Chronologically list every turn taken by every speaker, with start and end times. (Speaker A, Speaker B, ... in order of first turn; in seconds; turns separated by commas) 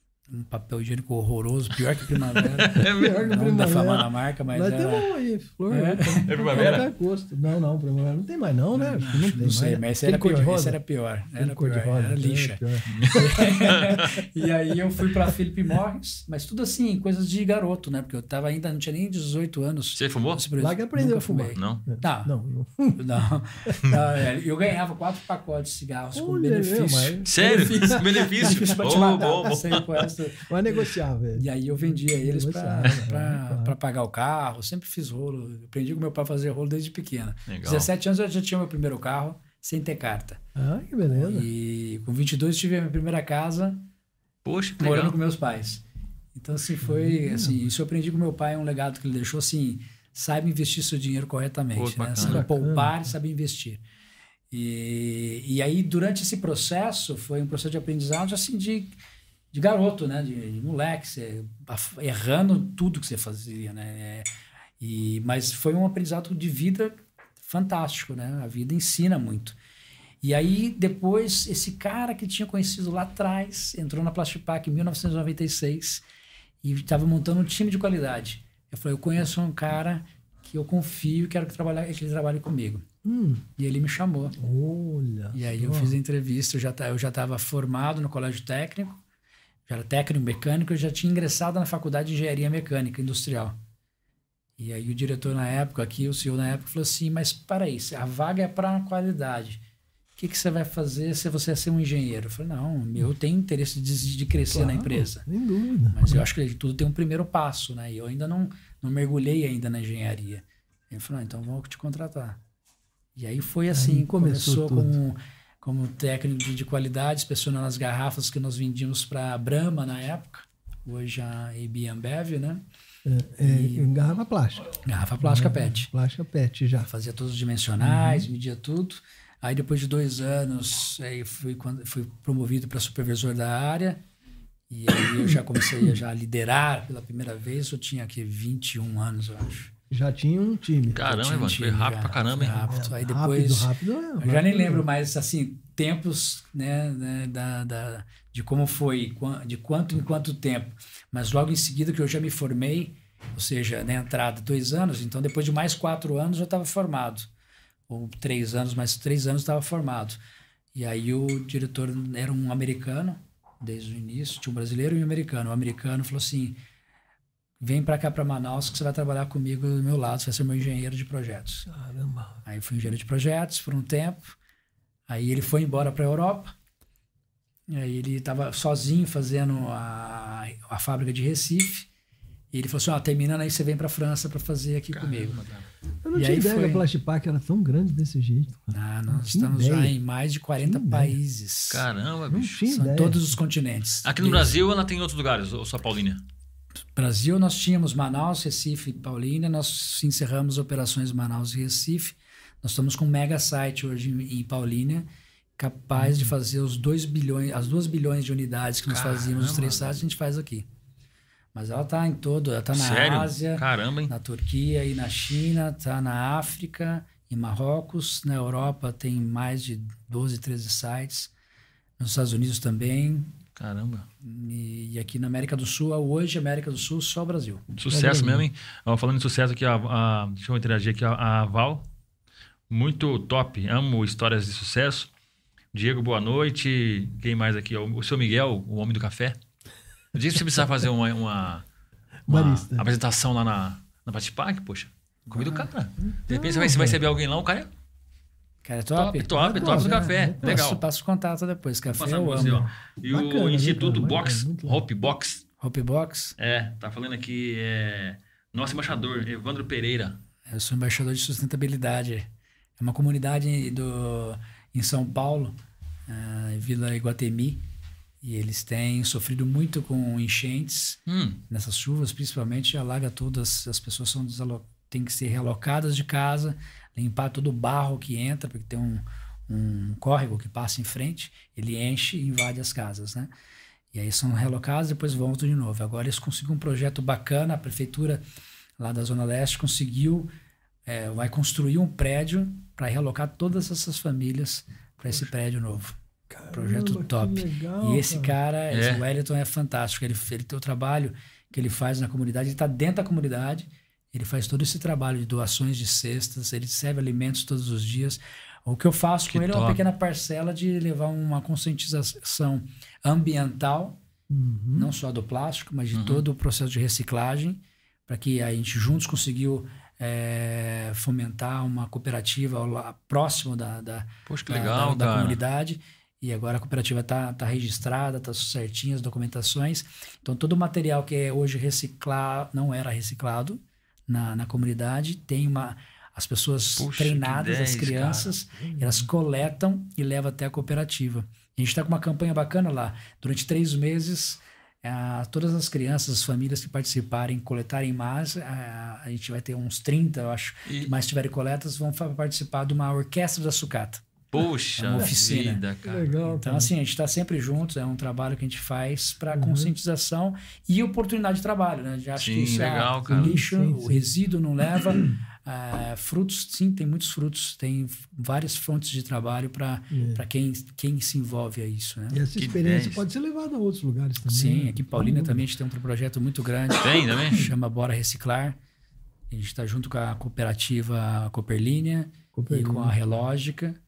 Speaker A: 0.3-5.1, Speaker B: 2.4-3.2, Speaker C: 2.8-10.8, Speaker A: 5.7-6.4, Speaker B: 6.3-6.9, Speaker A: 8.8-22.3, Speaker C: 11.4-13.5, Speaker B: 12.9-14.1, Speaker B: 19.9-20.4, Speaker C: 20.6-23.0, Speaker B: 21.6-21.8, Speaker A: 22.9-40.4, Speaker C: 26.1-29.5, Speaker B: 27.3-30.0, Speaker C: 30.5-33.8, Speaker B: 37.5-37.9, Speaker C: 40.5-41.5, Speaker A: 41.1-43.8, Speaker B: 44.5-45.2, Speaker A: 44.8-45.8, Speaker A: 46.4-53.8, Speaker C: 46.8-47.6, Speaker B: 51.8-52.4, Speaker C: 52.2-52.9, Speaker A: 54.5-59.0, Speaker A: 59.5-64.3, Speaker A: 64.8-69.6, Speaker A: 70.2-76.0, Speaker A: 76.6-82.9, Speaker C: 83.0-83.5, Speaker A: 83.6-84.4, Speaker C: 84.4-86.0, Speaker A: 85.3-89.0, Speaker A: 89.7-93.6, Speaker A: 94.6-99.6, Speaker A: 100.2-105.2, Speaker C: 104.5-106.2, Speaker A: 105.9-112.4, Speaker A: 113.2-122.6, Speaker C: 113.7-115.0, Speaker C: 123.0-126.9, Speaker A: 123.4-123.9, Speaker A: 124.8-125.9, Speaker A: 126.9-134.0, Speaker C: 127.8-128.3, Speaker A: 134.7-139.7, Speaker C: 135.2-135.9, Speaker C: 139.9-141.1, Speaker B: 140.9-142.7, Speaker A: 141.0-157.3, Speaker C: 142.7-144.9, Speaker A: 157.9-160.2, Speaker A: 160.7-166.6, Speaker A: 167.6-171.7, Speaker C: 171.7-172.4, Speaker A: 172.4-174.4, Speaker A: 175.1-176.5, Speaker A: 177.7-181.9, Speaker A: 182.5-185.4, Speaker B: 184.9-185.7, Speaker C: 186.0-190.0, Speaker A: 186.2-186.8, Speaker A: 188.7-191.8, Speaker C: 190.6-191.2, Speaker B: 191.7-192.6, Speaker C: 192.3-193.3, Speaker A: 192.7-194.5, Speaker B: 194.0-196.2, Speaker A: 197.0-205.1, Speaker A: 205.6-210.7, Speaker C: 206.0-206.3, Speaker B: 208.9-209.9, Speaker A: 211.5-221.3, Speaker B: 212.7-214.1, Speaker A: 222.0-223.4, Speaker B: 223.6-224.1, Speaker A: 224.2-227.6, Speaker B: 227.8-231.8, Speaker C: 227.9-228.4, Speaker B: 232.7-235.1, Speaker B: 235.7-239.4, Speaker B: 240.1-241.7, Speaker C: 242.3-242.9, Speaker B: 242.3-247.7, Speaker A: 245.3-245.7, Speaker C: 246.0-247.0, Speaker A: 248.6-252.7, Speaker B: 249.0-250.8, Speaker C: 249.5-250.6, Speaker B: 251.9-255.4, Speaker C: 252.4-254.8, Speaker A: 255.6-256.4, Speaker B: 256.4-260.2, Speaker A: 260.5-265.6, Speaker A: 266.1-267.6, Speaker A: 268.2-283.3, Speaker B: 271.1-271.4, Speaker A: 283.9-288.2, Speaker A: 288.8-290.3, Speaker A: 290.9-296.0, Speaker C: 296.3-298.4, Speaker A: 296.5-314.0, Speaker B: 298.7-299.0, Speaker B: 309.3-309.8, Speaker C: 314.3-314.9, Speaker A: 314.8-354.0, Speaker B: 315.9-316.2, Speaker B: 324.3-325.4, Speaker B: 336.8-338.3, Speaker C: 338.6-339.1, Speaker B: 350.7-350.9, Speaker B: 354.3-356.1, Speaker A: 354.8-372.2, Speaker C: 355.8-356.7, Speaker C: 359.3-359.7, Speaker B: 362.2-363.4, Speaker C: 363.1-364.1, Speaker C: 369.9-370.2, Speaker C: 372.1-375.5, Speaker B: 372.4-373.1, Speaker A: 374.3-378.6, Speaker B: 376.8-377.5, Speaker A: 379.3-383.8, Speaker C: 382.3-383.0